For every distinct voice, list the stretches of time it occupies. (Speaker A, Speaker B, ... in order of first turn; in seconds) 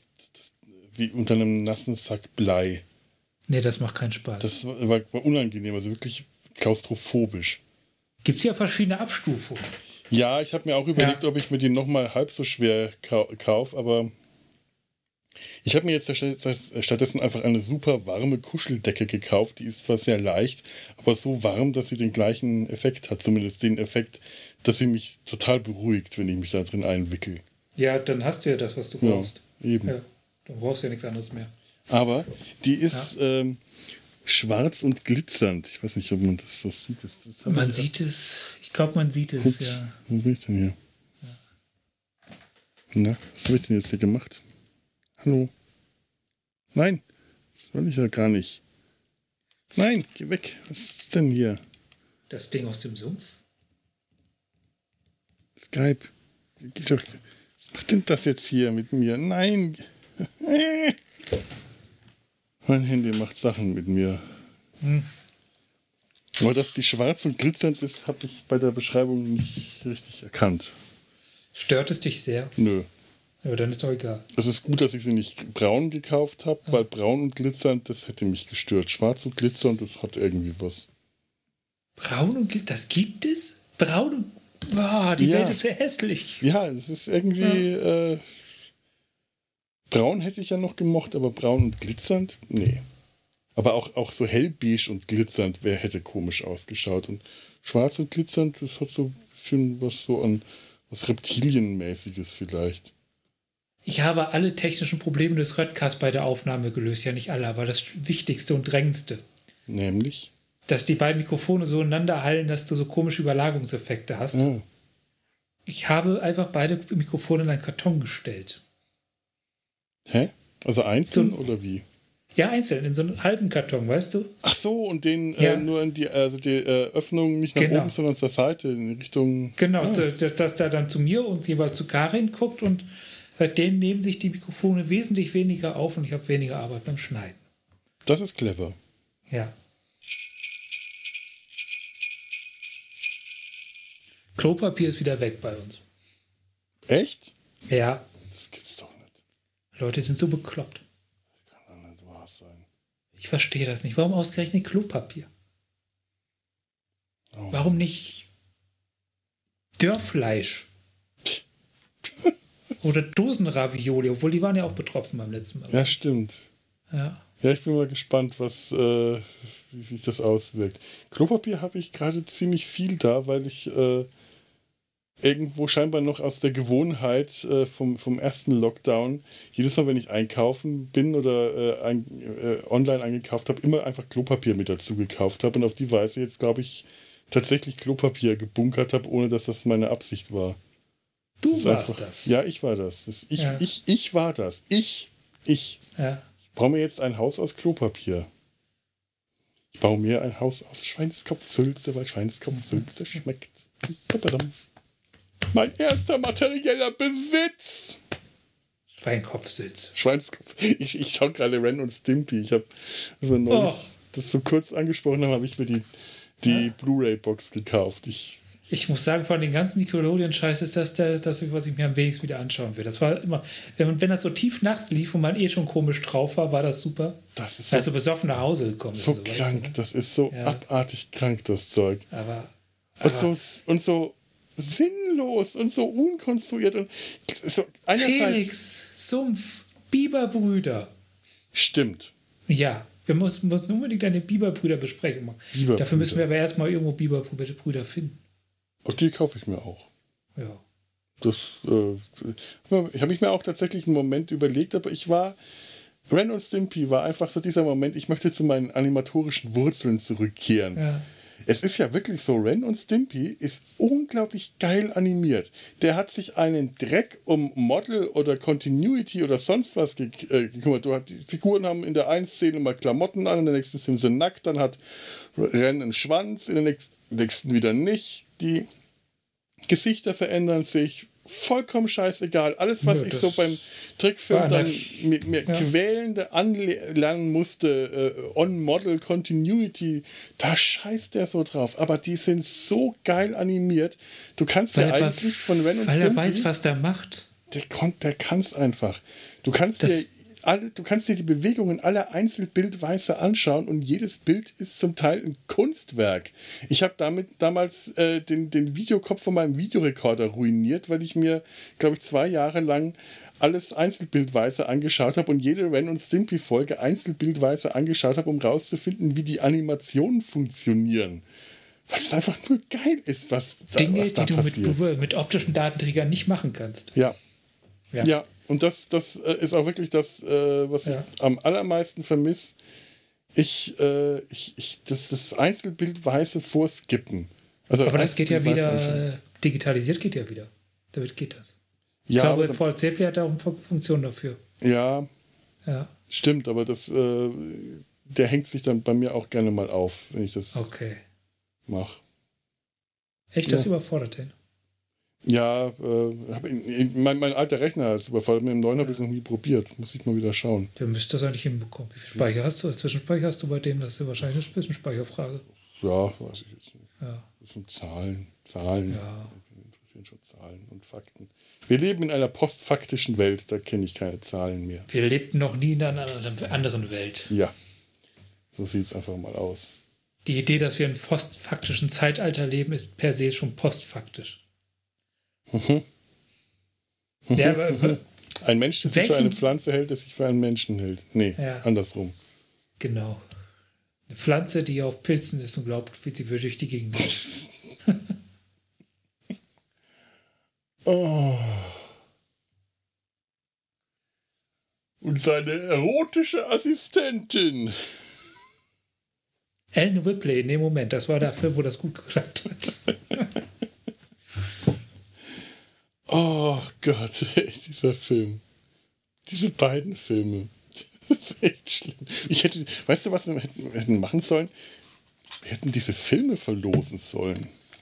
Speaker A: 0.2-2.8, 4.4-7.6, 10.1-14.1, 15.6-27.4, 29.0-29.9, 31.9-33.6, 34.2-37.9, 39.4-40.8, 42.9-44.4, 45.2-45.5, 46.7-47.0, 47.6-48.6, 49.7-51.6, 55.6-61.0, 62.6-64.4, 66.4-70.7, 72.6-72.9, 74.3-80.9, 85.2-85.6, 86.4-88.4, 89.9-92.8, 93.5-102.9, 109.7-110.3, 114.3-114.6, 120.1-121.8, 124.4-130.1, 138.0-138.8, 146.9-147.3, 148.3-149.2, 151.4-152.7, 157.3-157.7, 162.0-162.3, 165.7-166.5, 167.4-174.1, 175.2-190.6, 191.4-195.8, 196.5-198.3, 199.7-204.5, 205.5-208.0, 209.9-215.9, 216.4-218.4, 227.3-227.9, 228.9-232.1, 233.0-238.5, 241.5-242.1, 245.5-246.2, 248.8-249.9, 251.2-255.4, 256.1-260.8, 261.4-278.7, 279.6-296.5, 297.5-321.2, 321.9-324.9, 328.0-332.6, 333.3-339.0, 342.1-342.6, 344.6-345.1, 346.1-350.7, 351.7-352.0, 355.2-360.7, 362.1-362.4, 365.6-374.9, 377.3-377.5, 378.5-379.7, 385.5-385.8, 387.2-392.1, 397.1-397.4, 400.8-401.9, 405.0-407.8, 416.1-418.4, 419.2-424.5, 425.4-427.5
Speaker B: 3.5-4.5, 8.2-9.6, 10.9-11.2, 27.8-31.5, 37.5-39.9, 52.3-53.4, 64.8-65.1, 71.5-72.5, 73.4-74.2, 82.0-86.4, 87.4-87.7, 103.8-109.2, 110.7-114.5, 115.7-118.6, 121.1-121.4, 122.3-124.3, 125.4-125.7, 127.5-128.0, 129.6-137.4, 139.3-139.5, 144.3-145.8, 147.7-148.1, 149.8-150.8, 153.2-155.3, 157.5-158.3, 159.8-160.7, 162.8-166.0, 166.9-167.2, 191.4-192.4, 193.4-193.6, 195.9-196.2, 202.5-202.8, 208.9-209.9, 213.5-213.9, 218.7-229.8, 230.3-230.6, 232.1-233.3, 237.9-240.9, 242.5-248.2, 250.3-250.6, 260.7-261.1, 282.8-283.6, 284.3-285.7, 294.7-297.3, 299.8-300.1, 323.7-326.9, 337.8-341.6, 342.1-344.4, 345.6-345.9, 350.5-351.0, 353.3-354.3, 360.8-365.4, 367.0-367.3, 368.9-369.3, 374.9-377.3, 380.2-384.4, 387.3-388.0, 388.8-389.4, 391.4-391.7, 392.8-393.2, 394.1-397.3, 409.7-413.2